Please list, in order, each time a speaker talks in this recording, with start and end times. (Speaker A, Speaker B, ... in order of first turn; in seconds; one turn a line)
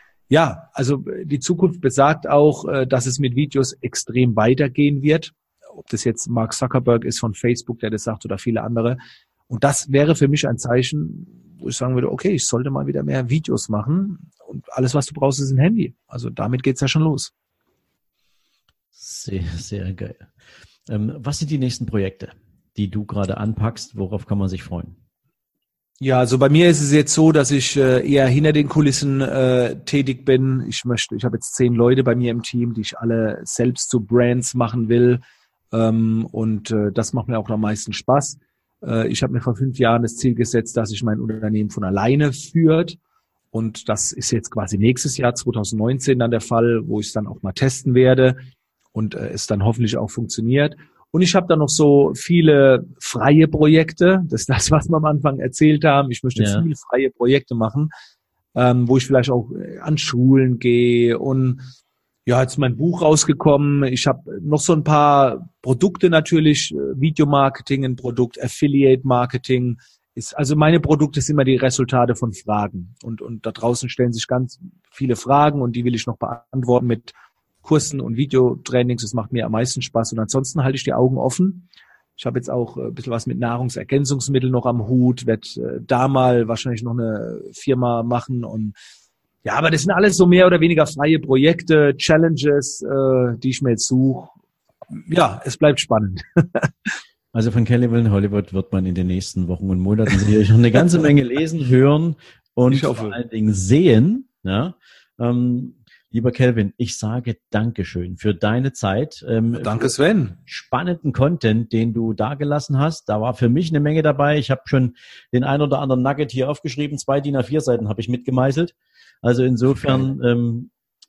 Speaker A: 0.3-9.0
Speaker A: 9.5-17.3
Speaker B: 19.0-20.3
Speaker B: 20.9-24.9
Speaker A: 26.0-35.2
Speaker A: 35.7-43.0
Speaker A: 43.5-48.4
Speaker A: 48.9-57.9
Speaker B: 56.4-56.6
Speaker A: 58.5-61.6
Speaker A: 62.3-77.1
Speaker A: 77.6-88.8
Speaker A: 89.5-94.3
Speaker A: 94.9-96.9
Speaker B: 97.3-109.9
Speaker A: 102.7-103.2
Speaker A: 109.5-110.4
Speaker B: 110.5-120.7
Speaker A: 119.7-120.1